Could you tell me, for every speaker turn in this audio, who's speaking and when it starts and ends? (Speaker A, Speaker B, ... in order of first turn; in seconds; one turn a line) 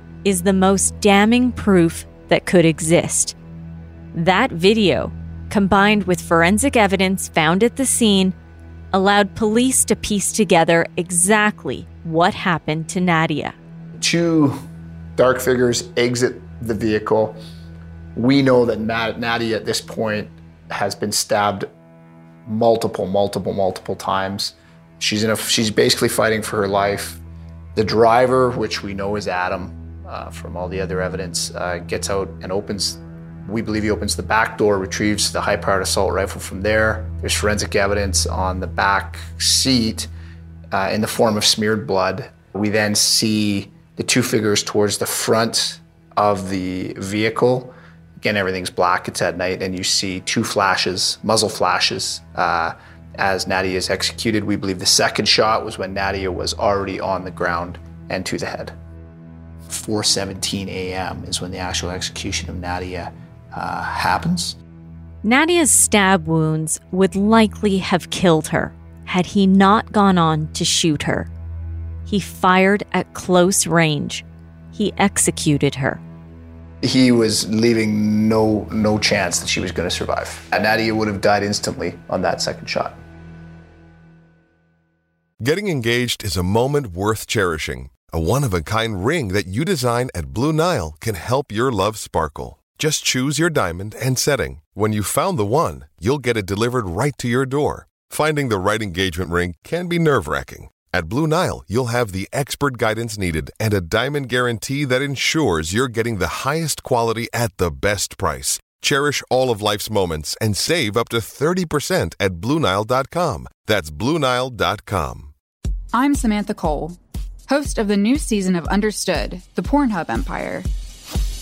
Speaker A: 0.2-3.3
Speaker A: 4.1-8.3
Speaker A: 8.9-13.6
Speaker B: 13.9-14.6
Speaker B: 15.2-17.4
Speaker B: 18.1-21.7
Speaker B: 22.4-27.2
Speaker B: 27.7-40.1
Speaker B: 40.7-58.7
Speaker B: 59.7-64.6
Speaker A: 65.2-71.3
Speaker A: 72.1-76.0
Speaker B: 76.8-83.0
Speaker C: 85.4-115.3
Speaker D: 115.9-117.0
Speaker D: 117.5-120.7